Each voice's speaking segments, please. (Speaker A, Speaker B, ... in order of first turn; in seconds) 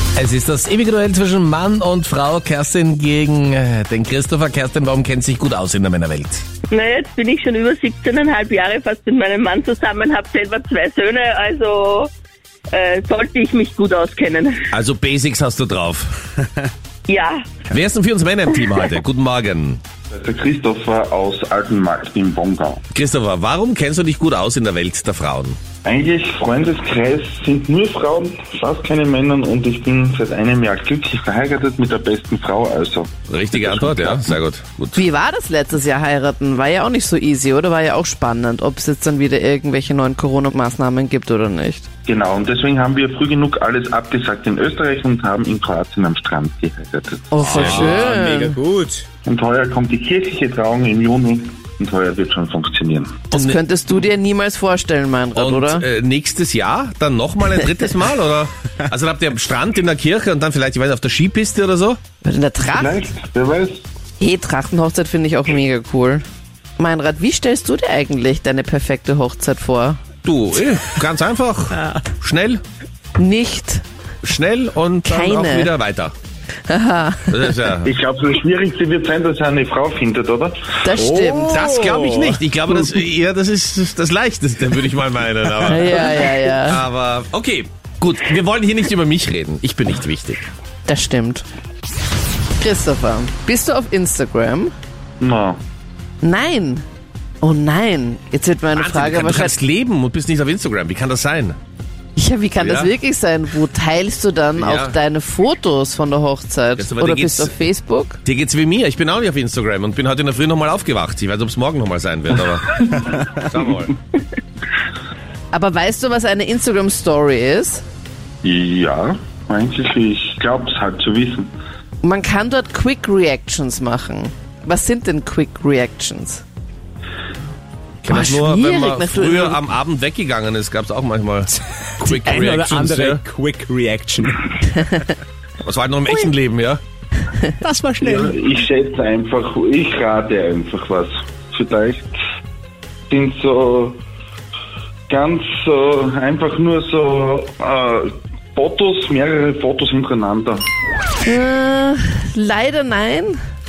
Speaker A: 0.1-6.4, 14.7-16.1, 17.7-19.8, 22.9-25.6, 33.3-35.0, 47.4-48.0, 53.3-53.6, 55.4-62.0, 70.2-72.6, 74.2-76.1, 77.3-77.9, 81.5-90.4, 98.7-101.6, 102.6-102.9, 104.6-105.0, 106.8-107.5, 108.2-113.9, 128.0-133.2, 135.6-136.8
Speaker B: 6.7-12.1, 12.7-14.7, 17.1-17.6
Speaker C: 20.1-22.8, 25.8-33.1, 33.7-34.1, 42.1-47.6, 49.2-53.2, 62.7-63.8, 77.8-80.6, 95.2-95.6, 118.4-121.5, 138.0-142.2, 143.1-144.0, 145.1-150.6
Speaker D: 34.9-41.9, 47.3-48.6, 53.3-55.8, 62.2-63.0, 64.2-66.2, 66.8-70.0, 73.2-73.8, 75.0-75.7, 76.7-77.4, 80.8-81.7, 85.6-86.8, 90.8-91.4, 92.6-94.7, 96.2-96.8, 97.4-99.6, 102.2-108.2, 115.5-117.8, 122.0-126.4, 128.0-129.6, 151.2-153.4
Speaker E: 47.4-49.0, 80.9-82.4, 131.5-134.5, 137.6-138.4